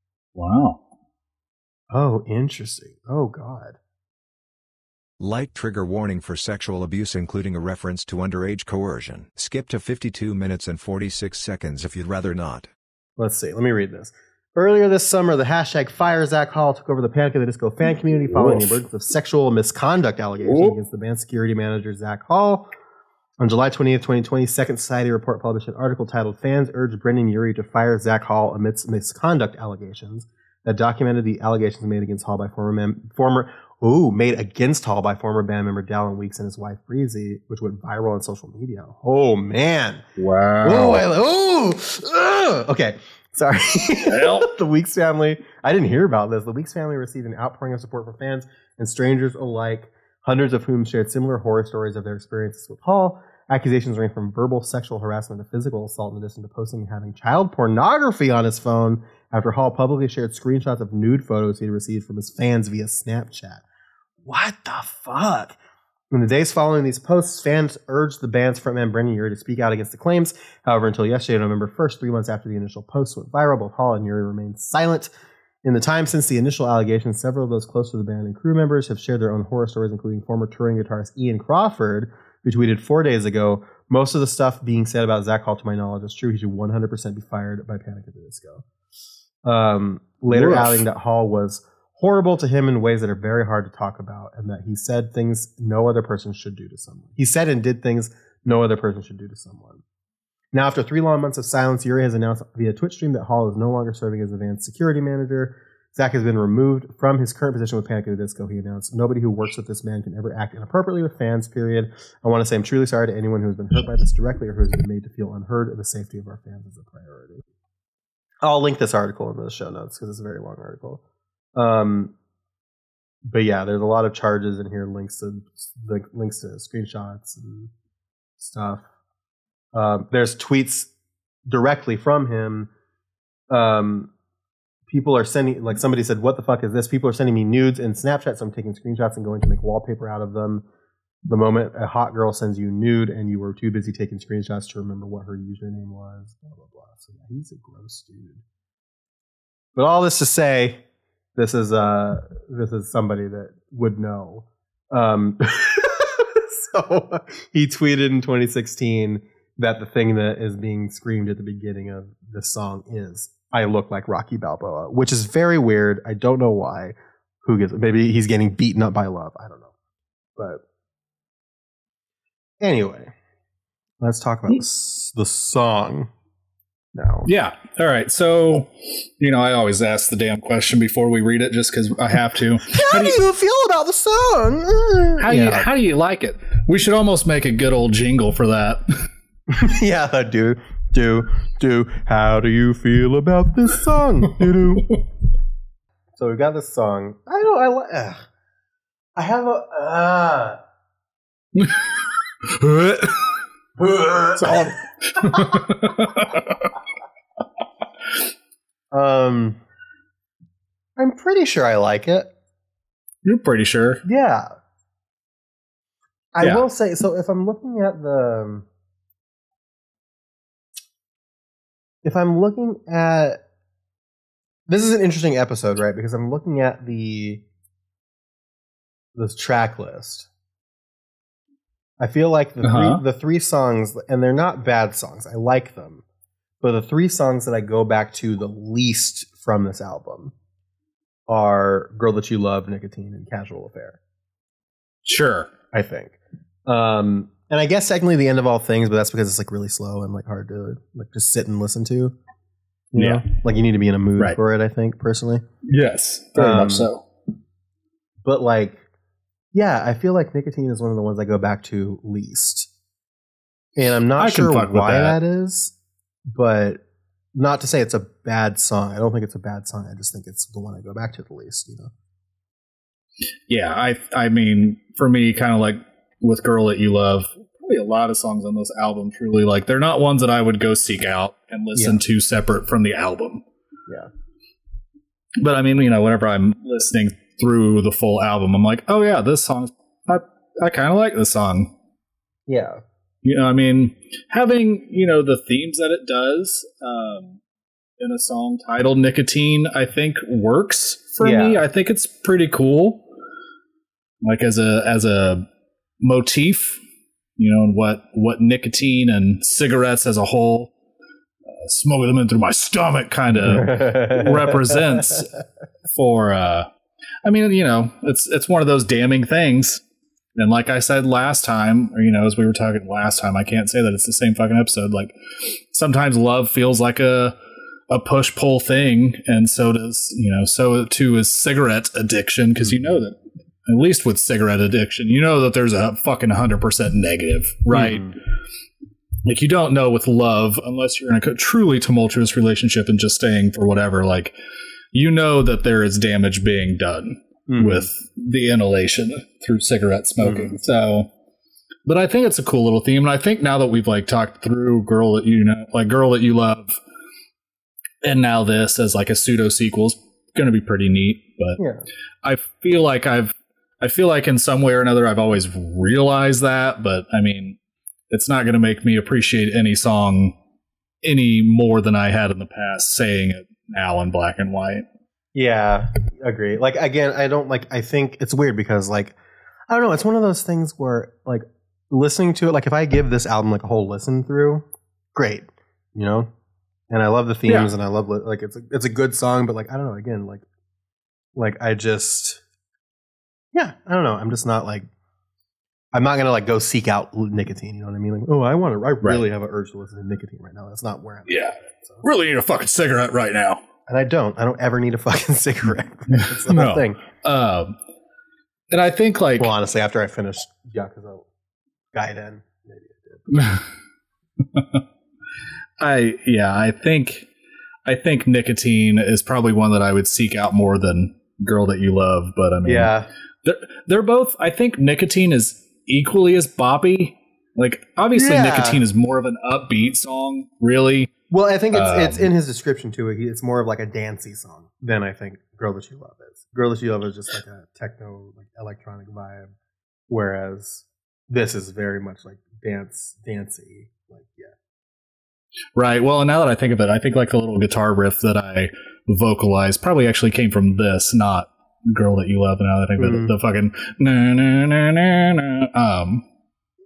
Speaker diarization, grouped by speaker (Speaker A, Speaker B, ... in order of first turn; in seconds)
Speaker A: 0.4-0.8, 18.3-18.8, 20.4-20.8, 40.2-41.0, 44.1-44.5, 90.3-90.9, 177.3-183.2, 185.2-189.1, 201.6-203.4, 204.4-206.7, 213.2-214.0, 232.6-233.0, 245.1-245.5, 253.0-253.2, 255.6-257.0, 264.2-265.2, 273.5-283.4, 285.4-291.7, 293.2-297.4, 298.0-303.1, 304.2-305.5, 306.0-306.8, 307.4-310.7, 311.5-315.3, 315.9-316.7, 317.2-319.8, 320.4-327.4, 327.9-338.1, 339.2-344.4, 344.9-351.1, 351.9-356.8, 358.0-361.6, 362.2-367.6, 368.1-370.4, 371.0-374.9, 387.5-387.7, 401.3-403.6, 406.2-407.8, 408.7-409.5, 413.3-413.6, 414.4-414.8, 415.8-417.3, 417.9-422.9, 423.4-431.1, 431.7-432.3, 445.8-456.3
Speaker B: 1.9-3.8, 13.2-22.7, 23.4-40.0, 40.6-63.6, 64.2-65.6, 66.1-75.1, 75.6-88.6, 89.5-99.8, 100.5-117.4, 118.4-121.0, 121.6-122.1, 123.3-127.7, 128.4-128.8, 129.7-130.9, 131.5-132.7, 133.5-134.1, 134.9-140.7, 141.3-148.4, 149.8-150.8, 151.4-169.7, 170.4-170.6, 172.6-173.1, 174.0-176.1, 176.9-177.3, 182.7-185.7, 189.5-194.9, 196.2-198.2, 199.2-200.6, 203.8-205.7, 208.9-209.6, 211.0-212.3, 214.1-214.5, 216.3-218.7, 222.0-223.4, 224.7-227.4, 229.2-230.3, 232.0-236.0, 236.6-240.3, 241.3-244.0, 245.7-246.2, 246.7-252.2, 252.9-255.4, 256.4-256.9, 258.2-258.8, 259.5-262.7, 263.8-265.7, 266.3-266.8, 267.4-271.9, 281.8-282.0, 292.5-292.8, 301.2-301.6, 313.4-315.1, 337.7-338.2, 347.5-347.9, 350.2-350.6, 361.6-361.9, 375.4-379.2, 379.7-386.3, 386.9-390.4, 391.4-392.4, 393.5-394.9, 395.9-402.0, 403.9-407.0, 409.4-411.2, 411.9-413.3, 422.6-423.1, 428.1-428.8, 431.3-439.5, 440.1-444.5, 453.0-453.4
Speaker C: 5.2-12.7